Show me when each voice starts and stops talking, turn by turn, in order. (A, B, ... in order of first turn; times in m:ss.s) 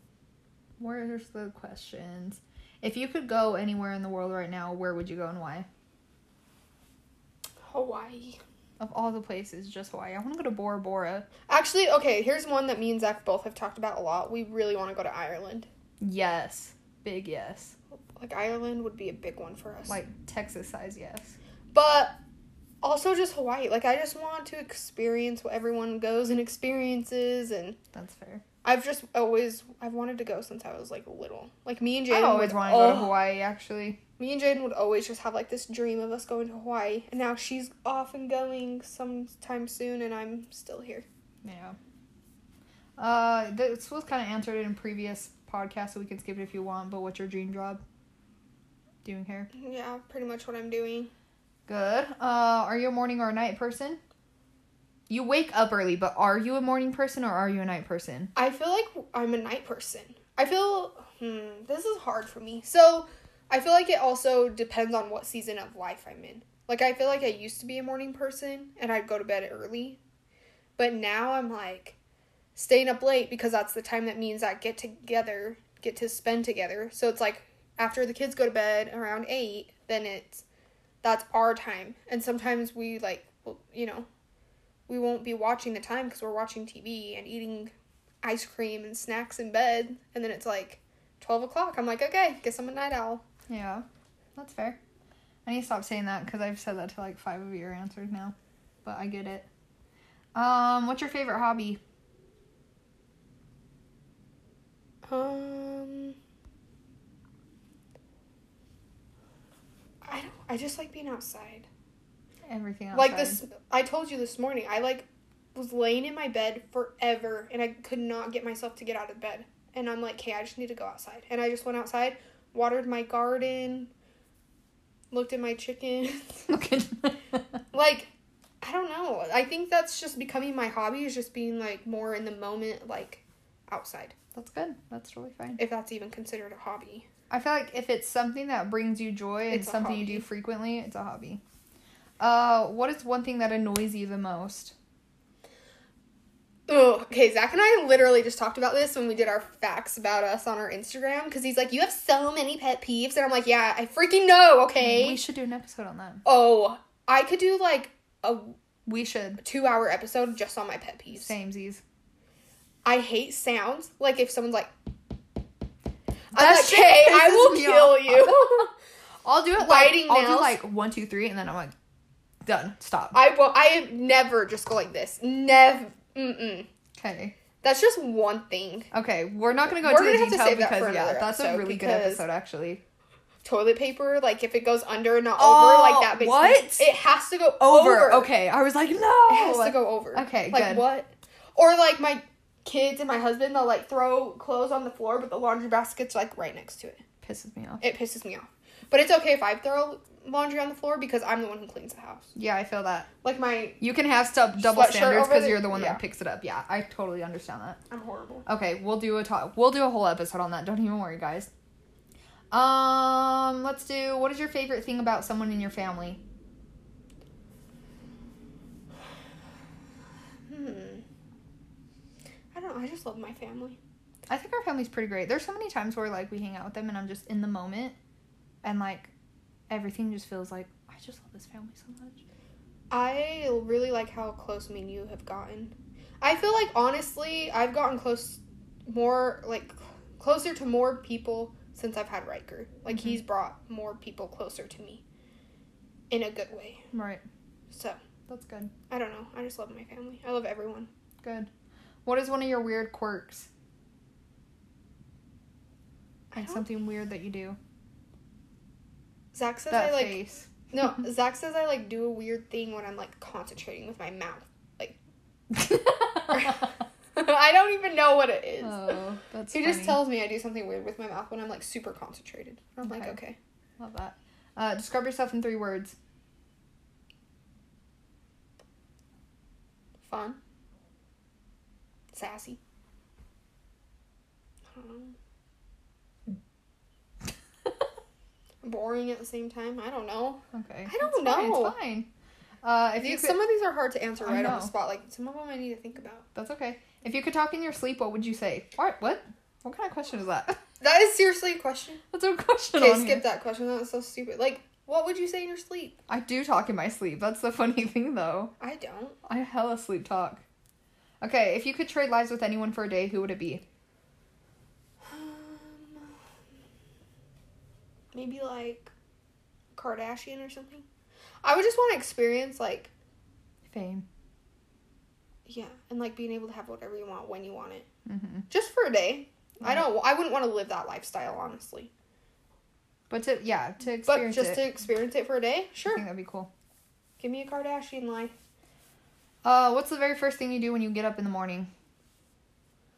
0:00.8-0:05.7 A
0:07.6-0:08.4 B
0:08.8-0:11.2 A
0:11.5-0:15.7 B
0:16.0-0:17.7 A
0:17.9-0:20.0 B
0:19.9-0:21.4 A
0:21.7-0:22.2 B
0:22.8-0:27.8 B
0:27.9-0:28.4 A
0:28.6-0:33.2 B
0:32.1-0:34.0 A
0:34.2-0:41.0 B
0:41.4-0:41.8 A
0:43.0-0:47.8 A
0:49.0-0:49.5 A
0:49.5-0:51.1 B
0:51.7-0:54.0 A
0:55.1-0:58.3 A
0:58.4-1:10.0 B
1:10.8-1:12.0 B
1:12.5-1:20.4 B
1:21.0-1:24.1 B
1:24.9-1:33.2 B
1:33.5-1:33.8 A
1:34.4-1:34.8 A
1:35.4-1:39.5 A
1:40.3-1:41.8 A
1:45.0-1:46.2 B
1:50.0-1:51.7 B
1:52.5-1:53.4 A
1:52.9-2:03.9 B
2:05.1-2:06.5 B
2:06.5-2:07.4 A
2:07.7-2:08.1 B
2:08.6-2:14.1 B
2:14.3-2:15.6 A
2:15.6-2:17.1 B
2:17.3-2:21.4 A
2:19.5-2:20.3 B
2:22.2-2:24.7 A
2:26.7-2:35.2 B
2:34.8-2:36.2 A
2:36.2-2:38.5 B
2:38.8-2:39.4 A
2:39.4-2:41.3 B
2:41.1-2:41.8 A
2:42.8-2:44.7 B
2:46.3-2:48.7 A
2:46.3-2:48.7 B
2:49.2-2:51.7 A
2:49.6-2:50.6 B
2:52.4-2:53.2 A
2:53.1-2:56.7 B
2:57.0-2:57.3 A
2:57.6-2:58.9 B
2:58.9-3:02.8 A
2:59.7-3:02.2 B
3:03.4-3:08.3 B
3:05.4-3:06.9 A
3:07.6-3:10.9 A
3:09.3-3:17.0 B
3:17.2-3:17.8 A
3:17.8-3:22.3 B
3:22.4-3:23.1 A
3:23.2-3:23.8 B
3:23.8-3:27.8 A
3:24.6-3:26.0 B
3:27.9-3:28.4 B
3:28.4-3:31.5 A
3:32.5-3:36.2 A
3:40.5-3:41.0 B
3:42.5-3:43.8 B
3:44.3-3:48.0 A
3:48.6-3:49.1 A
3:49.7-3:52.2 A
3:52.9-4:05.0 B
4:02.9-4:03.2 A
4:06.1-4:06.8 B
4:06.9-4:07.2 A
4:07.7-4:08.0 B
4:08.3-4:08.7 A
4:08.9-4:10.9 B
4:11.2-4:11.5 A
4:12.0-4:13.5 A
4:16.3-4:16.6 B
4:16.3-4:17.6 A
4:19.3-4:20.2 B
4:19.7-4:20.5 A
4:20.7-4:25.0 B
4:25.5-4:26.6 A
4:26.3-4:29.0 B
4:28.6-4:30.0 A
4:29.5-4:33.4 B
4:32.8-4:33.2 A
4:33.8-4:36.0 A
4:40.0-4:40.4 B
4:42.1-4:42.6 B
4:44.7-4:45.1 B
4:48.6-4:51.8 B
4:50.5-4:52.1 A
4:52.6-4:53.4 A
4:53.0-4:56.2 B
4:54.2-4:54.7 A
4:56.3-5:00.6 A
5:00.8-5:02.0 B
5:02.1-5:03.2 A
5:02.7-5:06.0 B
5:06.1-5:08.5 A
5:08.6-5:09.2 B
5:09.2-5:10.4 A
5:11.2-5:13.6 A
5:15.0-5:16.1 B
5:18.1-5:18.9 B
5:19.7-5:20.8 B
5:21.4-5:22.9 B
5:23.7-5:24.0 A
5:25.4-5:27.9 B
5:28.0-5:28.5 A
5:28.5-5:31.9 B
5:29.6-5:29.9 A
5:33.1-5:34.7 A
5:34.1-5:36.0 B
5:35.9-5:36.5 A
5:37.2-5:38.3 B
5:39.4-5:41.7 A